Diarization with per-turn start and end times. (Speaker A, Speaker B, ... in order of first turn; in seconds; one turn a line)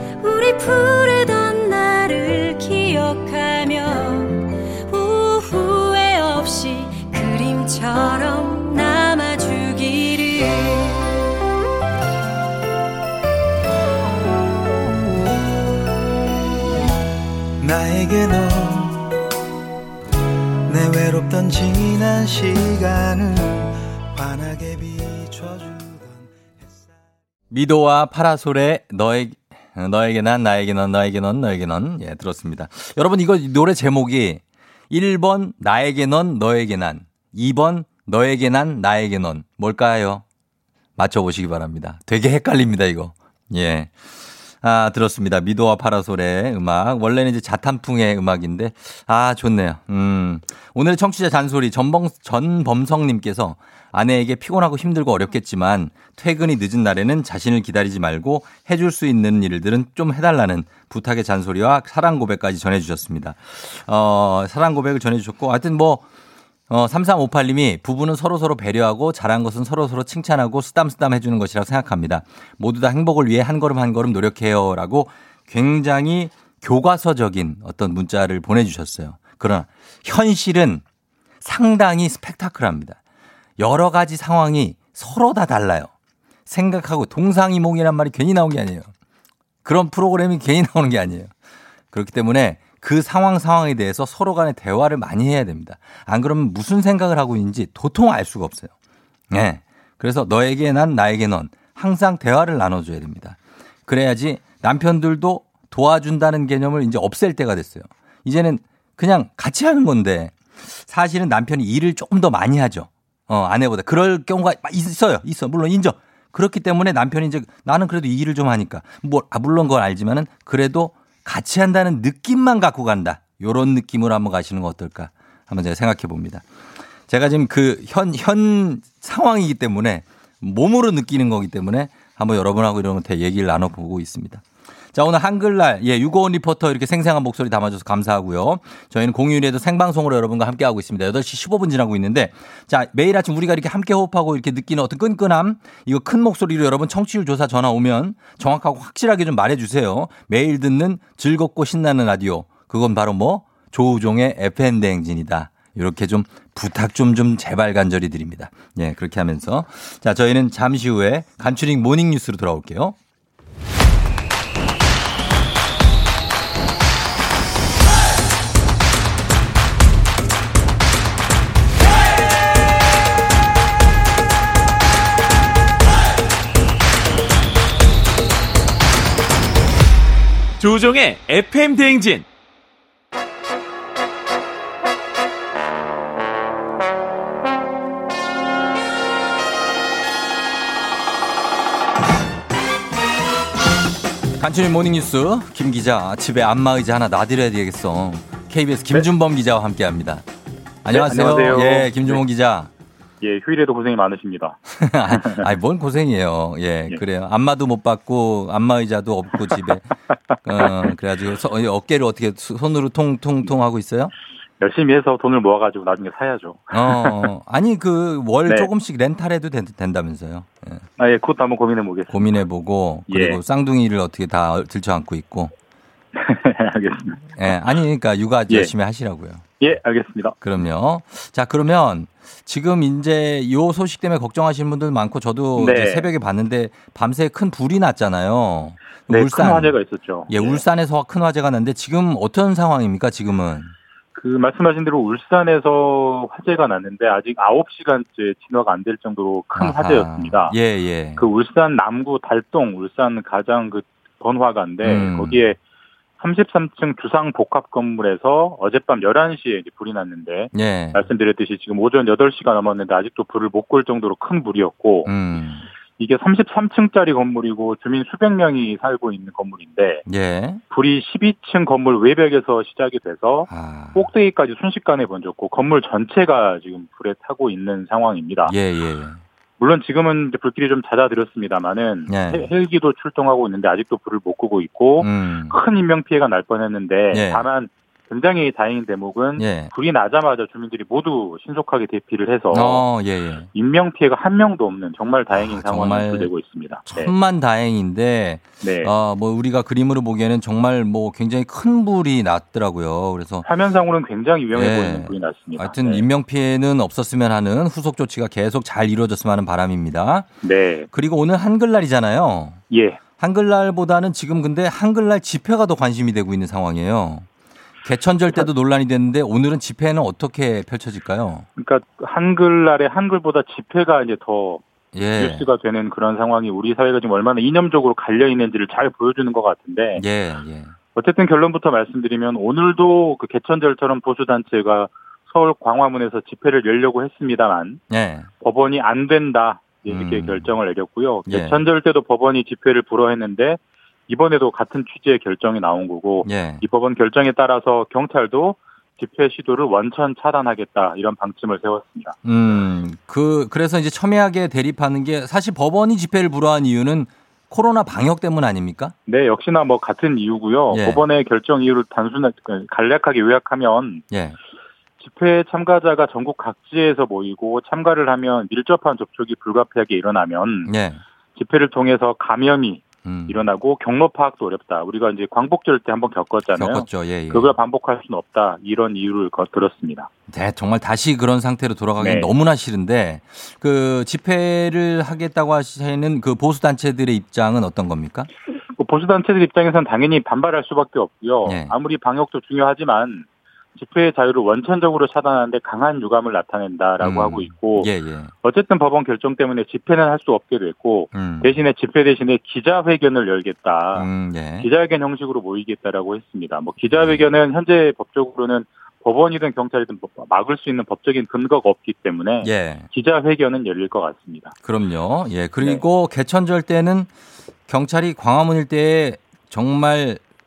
Speaker A: 0.2-11.2
Speaker B: 17.6-18.8
Speaker B: 20.7-23.6
Speaker B: 24.2-25.8
Speaker C: 27.5-40.2
Speaker C: 41.0-43.9
Speaker C: 44.6-66.0
Speaker C: 66.7-80.8
Speaker C: 81.4-83.0
Speaker C: 83.6-85.9
Speaker C: 86.5-88.9
Speaker C: 89.7-91.3
Speaker C: 91.9-98.7
Speaker C: 99.3-126.4
Speaker C: 127.1-134.4
Speaker C: 134.9-163.0
Speaker C: 194.4-200.2
Speaker C: 200.8-202.7
Speaker D: 200.9-202.2
Speaker D: 203.2-205.5
Speaker C: 204.8-209.9
Speaker C: 210.4-214.1
Speaker D: 210.6-210.9
Speaker D: 214.6-217.3
Speaker C: 216.7-220.8
Speaker D: 221.0-222.3
Speaker C: 222.1-225.5
Speaker D: 223.1-223.4
Speaker D: 226.2-227.3
Speaker C: 227.4-229.6
Speaker D: 229.6-230.3
Speaker C: 230.4-239.8
Speaker D: 235.6-236.1
Speaker D: 239.1-240.6
Speaker C: 240.3-243.7
Speaker D: 244.2-250.6
Speaker C: 249.6-251.2
Speaker D: 251.2-255.6
Speaker C: 254.8-255.4
Speaker D: 256.2-265.1
Speaker C: 260.5-261.0
Speaker C: 265.1-265.7
Speaker D: 266.0-270.0
Speaker C: 270.1-270.6
Speaker D: 270.7-278.5
Speaker C: 273.5-274.1
Speaker C: 278.5-279.2
Speaker D: 279.6-292.9
Speaker C: 282.1-282.5
Speaker C: 285.0-285.5
Speaker C: 287.1-287.4
Speaker C: 289.4-289.7
Speaker C: 292.5-293.5
Speaker D: 293.5-297.1
Speaker C: 295.3-296.3
Speaker C: 296.9-303.5
Speaker D: 298.6-298.9
Speaker D: 303.4-306.0
Speaker C: 304.5-310.3
Speaker D: 310.4-310.9
Speaker C: 310.9-312.6
Speaker D: 312.7-313.0
Speaker C: 313.2-317.3
Speaker C: 317.8-321.5
Speaker D: 321.6-324.6
Speaker C: 324.9-325.5
Speaker D: 325.2-330.0
Speaker C: 330.0-330.7
Speaker D: 330.9-337.8
Speaker C: 337.9-338.3
Speaker D: 338.4-352.1
Speaker C: 339.9-340.5
Speaker C: 341.3-341.6
Speaker C: 346.2-346.6
Speaker C: 352.2-358.9
Speaker D: 359.1-364.0
Speaker C: 360.7-361.0
Speaker C: 364.1-364.4
Speaker D: 365.0-370.7
Speaker C: 370.6-371.0
Speaker D: 371.4-380.1
Speaker C: 373.0-373.4
Speaker C: 376.6-377.5
Speaker C: 380.3-388.3
Speaker D: 382.0-382.3
Speaker D: 388.8-397.9
Speaker C: 391.4-391.7
Speaker C: 397.0-398.3
Speaker D: 398.4-404.1
Speaker C: 401.1-401.6
Speaker C: 403.9-404.7
Speaker D: 404.6-414.5
Speaker C: 406.9-407.3
Speaker C: 412.4-412.9
Speaker C: 414.6-417.1
Speaker C: 417.7-420.2